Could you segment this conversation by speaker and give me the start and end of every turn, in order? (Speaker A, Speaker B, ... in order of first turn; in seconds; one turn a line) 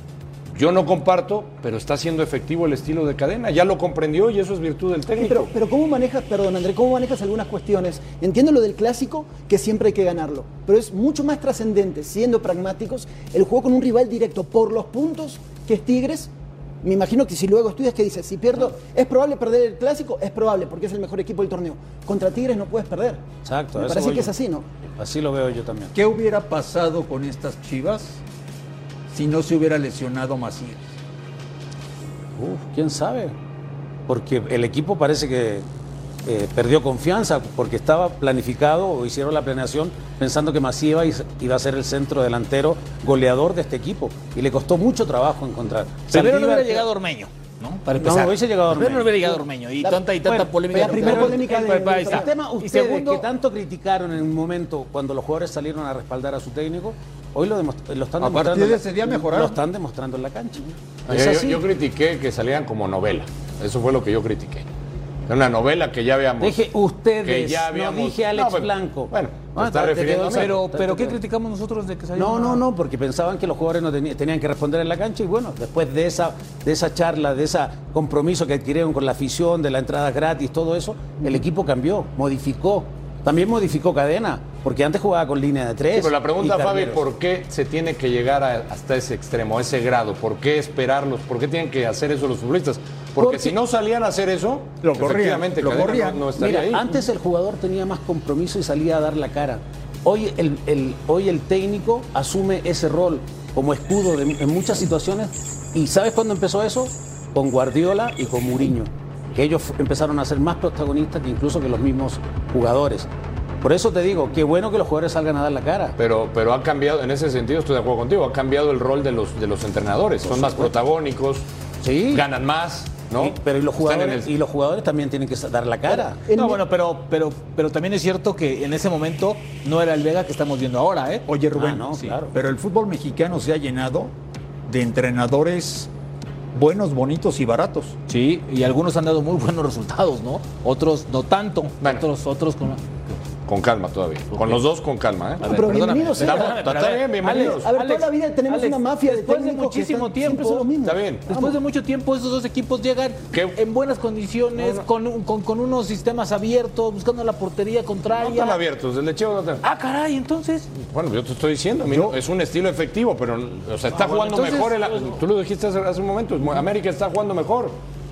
Speaker A: 0.5-5.5
Speaker B: 5.2-16.3
Speaker B: 16.8-24.6
Speaker C: 23.4-24.3
Speaker C: 25.0-25.9
Speaker D: 25.9-28.2
Speaker D: 29.1-30.9
Speaker C: 32.4-33.3
Speaker C: 34.1-35.6
Speaker C: 36.2-46.9
Speaker E: 46.1-53.3
Speaker C: 48.0-49.4
Speaker C: 50.2-61.6
Speaker B: 50.7-52.3
Speaker D: 58.2-59.6
Speaker A: 61.1-64.7
Speaker A: 65.3-66.6
Speaker C: 66.4-71.2
Speaker A: 67.2-70.5
Speaker E: 70.3-72.6
Speaker C: 72.2-87.0
Speaker A: 85.9-96.8
Speaker D: 94.8-96.3
Speaker C: 96.3-113.1
Speaker C: 113.6-115.9
Speaker A: 116.0-121.5
Speaker C: 120.2-120.7
Speaker C: 121.8-122.2
Speaker A: 122.1-124.3
Speaker C: 123.1-126.3
Speaker B: 125.9-126.6
Speaker E: 126.3-131.2
Speaker D: 131.3-134.1
Speaker C: 131.6-132.3
Speaker D: 134.7-135.9
Speaker D: 136.5-137.9
Speaker E: 138.1-143.1
Speaker A: 143.4-145.6
Speaker E: 144.3-144.6
Speaker E: 145.4-150.7
Speaker B: 145.4-146.6
Speaker A: 146.2-147.7
Speaker B: 147.2-151.6
Speaker A: 150.8-151.2
Speaker E: 151.3-158.6
Speaker A: 153.3-153.6
Speaker A: 154.6-154.8
Speaker A: 158.2-159.6
Speaker E: 159.6-160.7
Speaker A: 160.8-167.8
Speaker D: 161.8-162.2
Speaker E: 163.9-165.2